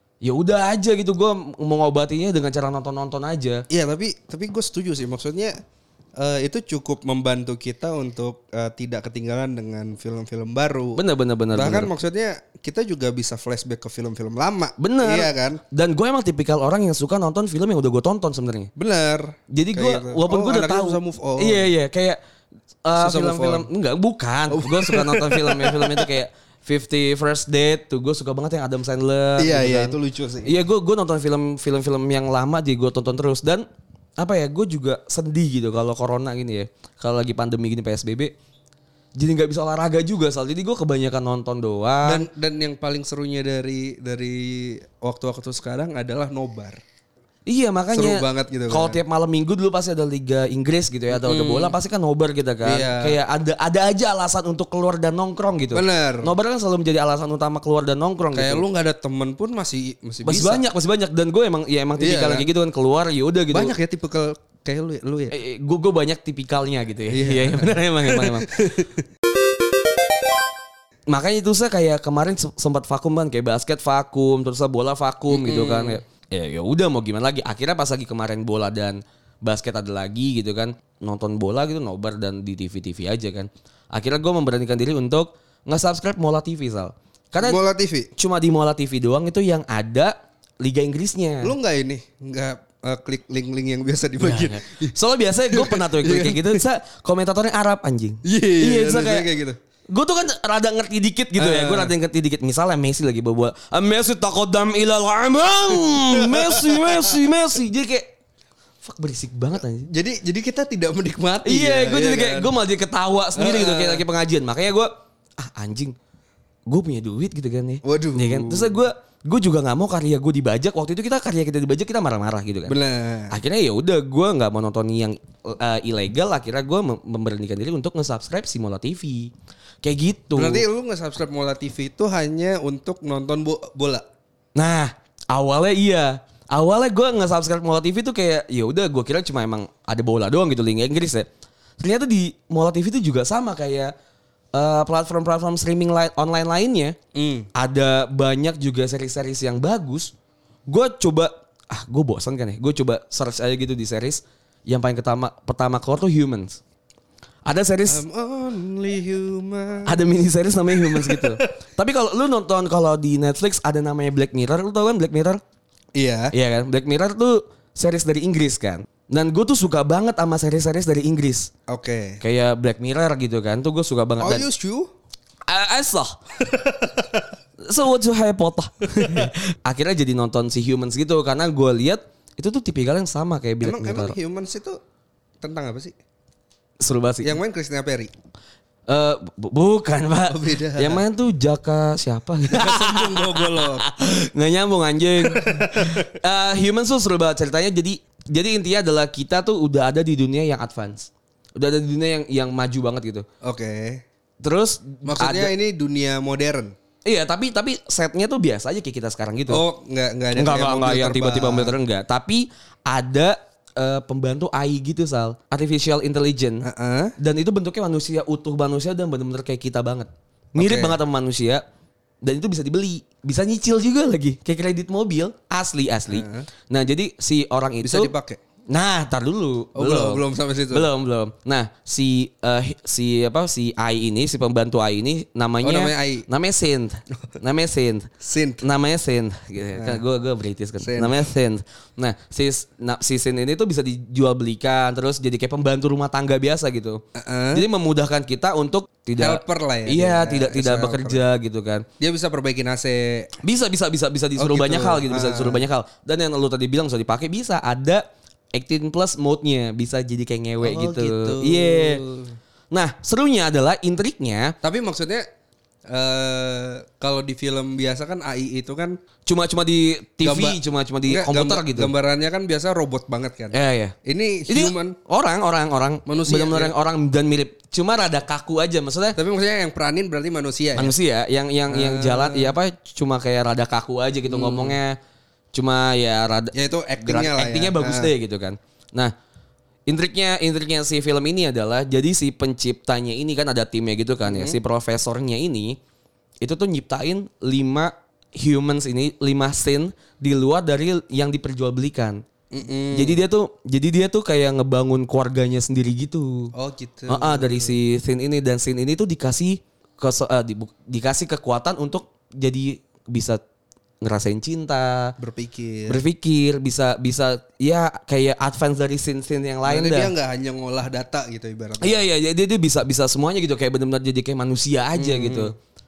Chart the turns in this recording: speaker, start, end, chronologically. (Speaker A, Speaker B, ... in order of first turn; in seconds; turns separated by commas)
Speaker A: 0.2-3.6, Speaker B: 3.7-5.5, Speaker B: 6.2-11.0, Speaker A: 10.9-11.9, Speaker B: 11.5-15.6, Speaker A: 14.8-18.7, Speaker B: 18.8-21.7, Speaker A: 19.5-22.2, Speaker A: 22.9-33.7, Speaker B: 23.0-23.7, Speaker B: 24.5-26.1, Speaker B: 29.4-30.5, Speaker A: 34.2-38.3, Speaker A: 39.2-42.2, Speaker B: 42.0-46.8, Speaker A: 47.5-58.6, Speaker B: 47.9-49.0, Speaker B: 51.1-51.8, Speaker B: 52.6-53.2, Speaker B: 55.7-56.3, Speaker B: 58.4-60.6, Speaker A: 60.2-63.7, Speaker B: 62.0-62.5, Speaker B: 63.5-65.3, Speaker A: 65.3-68.5, Speaker B: 67.1-69.0, Speaker A: 71.1-87.6, Speaker B: 75.3-76.0, Speaker B: 87.4-88.1, Speaker A: 88.2-91.5, Speaker B: 91.4-95.0, Speaker A: 94.2-99.3, Speaker B: 95.5-96.6, Speaker B: 98.2-99.6, Speaker A: 99.9-108.1, Speaker B: 101.4-101.9, Speaker B: 105.9-107.2, Speaker A: 108.8-109.9, Speaker B: 109.9-112.5, Speaker A: 111.5-116.0, Speaker B: 113.3-114.0, Speaker A: 116.7-122.8, Speaker B: 117.8-118.8, Speaker B: 122.7-123.3, Speaker A: 123.3-129.3, Speaker A: 129.8-130.6, Speaker B: 130.4-134.1, Speaker A: 134.6-141.3, Speaker A: 141.8-143.9, Speaker A: 144.5-147.0, Speaker B: 147.2-147.5, Speaker A: 147.6-150.1, Speaker A: 150.7-156.6, Speaker A: 157.5-158.0, Speaker B: 157.9-160.0, Speaker A: 159.9-165.4, Speaker B: 160.7-161.5, Speaker B: 165.9-166.3, Speaker A: 166.3-171.5, Speaker B: 171.7-172.2, Speaker A: 172.2-174.5, Speaker B: 174.2-174.9, Speaker A: 175.5-176.2, Speaker B: 176.4-177.2, Speaker A: 177.6-184.2, Speaker B: 179.0-179.3, Speaker B: 183.6-184.8, Speaker B: 185.4-186.0, Speaker A: 186.8-187.4, Speaker B: 187.2-188.1, Speaker A: 188.9-203.3, Speaker B: 190.3-191.0, Speaker B: 192.5-193.9, Speaker B: 195.2-196.1, Speaker B: 203.4-204.0, Speaker A: 204.4-205.5, Speaker B: 205.1-206.7, Speaker A: 207.1-209.6, Speaker B: 209.5-211.8, Speaker A: 210.3-216.7, Speaker B: 216.6-217.1, Speaker A: 217.2-221.6, Speaker B: 220.6-221.0, Speaker A: 222.2-228.1, Speaker B: 226.1-226.5, Speaker B: 227.8-228.4, Speaker A: 228.7-238.1, Speaker B: 229.8-230.9, Speaker B: 235.6-236.3, Speaker B: 238.2-238.6, Speaker A: 238.6-247.0, Speaker B: 240.8-241.3, Speaker B: 247.2-247.7, Speaker A: 247.5-251.8, Speaker B: 249.2-251.2, Speaker B: 252.0-253.3, Speaker A: 253.4-262.0, Speaker B: 254.4-255.7, Speaker B: 260.6-262.3, Speaker A: 262.7-264.6, Speaker B: 264.6-265.3, Speaker B: 265.9-269.0, Speaker A: 269.3-271.9, Speaker B: 270.2-275.0, Speaker A: 273.5-273.9, Speaker A: 274.5-279.2, Speaker B: 276.1-276.7, Speaker B: 279.2-280.9, Speaker A: 280.8-285.0, Speaker B: 281.7-282.5, Speaker B: 284.3-284.8, Speaker A: 285.5-289.1, Speaker B: 286.5-288.1, Speaker A: 289.9-295.8, Speaker B: 294.3-294.6, Speaker A: 296.4-302.2, Speaker B: 302.5-303.2, Speaker A: 302.9-306.5, Speaker B: 306.6-307.8, Speaker A: 307.1-313.4, Speaker A: 314.0-315.1, Speaker B: 315.2-316.0, Speaker A: 315.9-320.1, Speaker B: 319.6-322.0, Speaker A: 321.8-325.5, Speaker B: 324.9-325.5